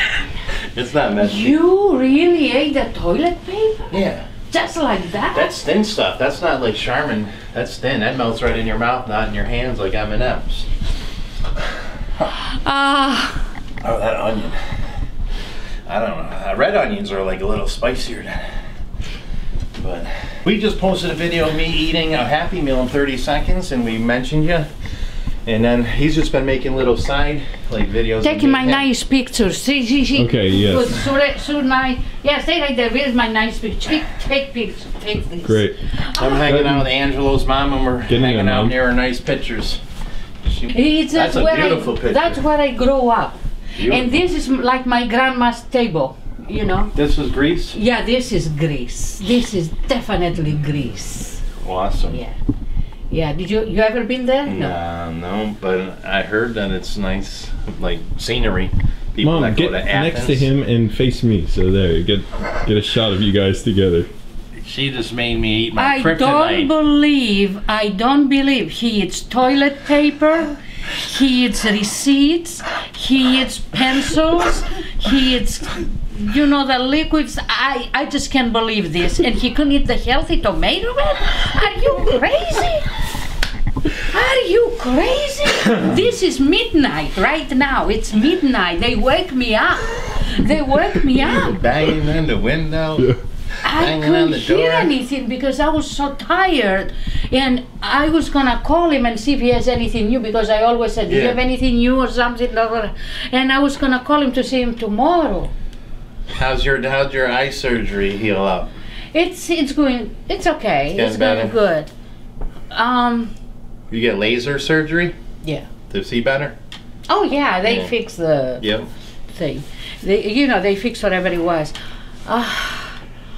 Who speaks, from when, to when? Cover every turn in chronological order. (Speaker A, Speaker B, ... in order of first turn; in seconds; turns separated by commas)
Speaker A: 0.5-1.6, Speaker B: 1.2-5.5, Speaker A: 3.9-4.3, Speaker A: 5.3-10.7, Speaker B: 12.4-13.5, Speaker A: 13.8-14.6, Speaker A: 15.8-18.5, Speaker A: 19.8-24.7, Speaker A: 25.4-28.9, Speaker B: 28.2-36.4, Speaker C: 30.1-30.9, Speaker C: 35.4-35.8, Speaker A: 36.2-39.8, Speaker C: 36.4-36.9, Speaker C: 38.1-38.8, Speaker A: 40.4-42.4, Speaker B: 40.7-47.0, Speaker A: 43.7-44.2, Speaker A: 46.9-47.8, Speaker B: 47.7-51.4, Speaker A: 51.6-52.2, Speaker B: 52.1-52.3, Speaker B: 53.1-54.8, Speaker A: 54.5-60.5, Speaker C: 59.2-64.1, Speaker A: 64.6-66.7, Speaker B: 65.8-82.9, Speaker B: 84.1-91.6, Speaker A: 91.1-94.9, Speaker B: 93.6-105.5, Speaker A: 101.1-101.4, Speaker A: 106.3-108.7, Speaker B: 109.1-111.9, Speaker A: 110.9-111.5, Speaker B: 112.7-113.3, Speaker A: 113.9-115.1, Speaker B: 115.4-115.7, Speaker A: 115.9-116.5, Speaker B: 117.1-118.7, Speaker A: 117.7-117.9, Speaker A: 118.6-118.9, Speaker B: 119.3-121.7, Speaker B: 122.2-123.0